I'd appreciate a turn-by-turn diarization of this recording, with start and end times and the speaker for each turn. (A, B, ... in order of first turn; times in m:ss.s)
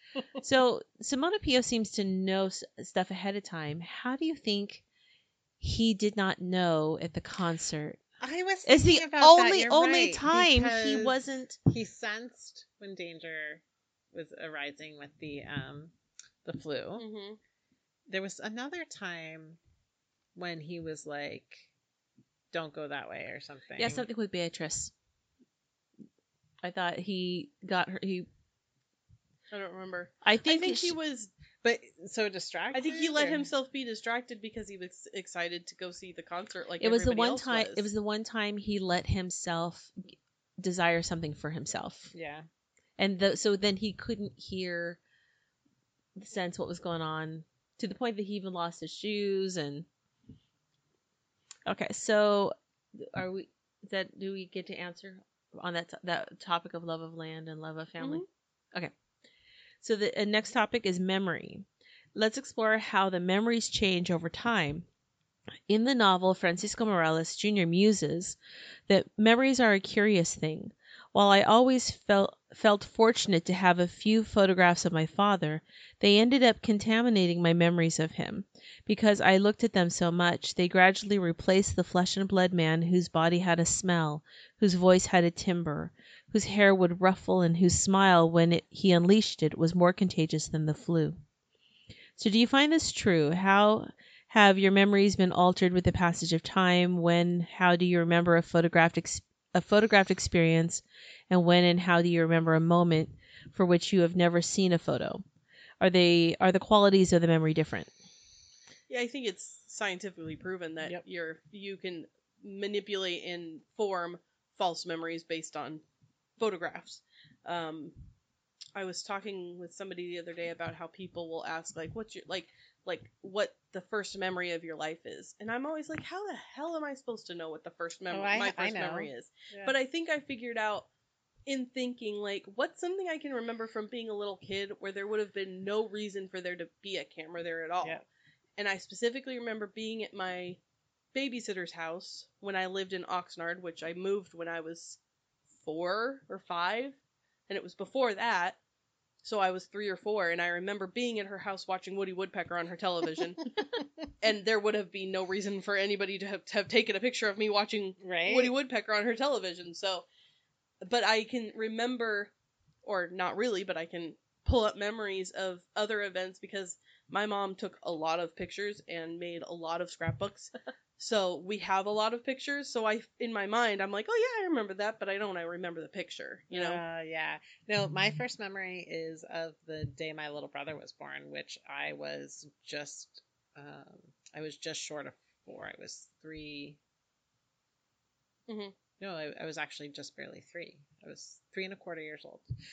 0:00.4-0:04.8 A
0:05.6-0:08.0 A
0:08.2-0:15.9 B
0:08.6-0:11.6 A
0:16.4-0:17.0 B
0:17.0-0:17.4 C
0:18.1-0:19.6 B
0:20.4-0:21.7 B
0:22.5-0:24.1 B
0:23.8-0:24.9 A
0:26.6-0:28.3 A
0:29.5-0:31.3 C
0:30.2-0:31.0 A
0:31.6-0:33.5 B
0:32.7-0:37.9 C
0:36.8-0:42.1 A
0:42.1-0:42.4 B
0:43.0-0:45.0 A
0:46.2-0:49.8 A
0:51.6-0:58.9 A
0:58.0-0:58.2 C
0:59.8-1:04.8 A
1:05.7-1:08.4 A
1:08.9-1:31.2 A
1:32.2-1:45.2 A
1:45.8-1:47.9 A
1:48.9-1:55.8 C
1:56.4-1:57.9 C
1:58.7-2:10.9 C
2:08.1-2:09.8 B
2:11.5-2:18.0 C
2:18.6-2:20.6 C
2:21.1-2:25.0 C
2:25.6-2:27.0 C
2:27.5-2:28.6 C
2:29.2-2:33.5 C
2:34.2-2:40.0 C
2:38.0-2:38.5 B
2:40.8-2:42.3 C
2:42.8-2:56.8 C
2:56.5-3:06.8 B
3:08.5-3:08.7 C
3:09.0-3:12.4 B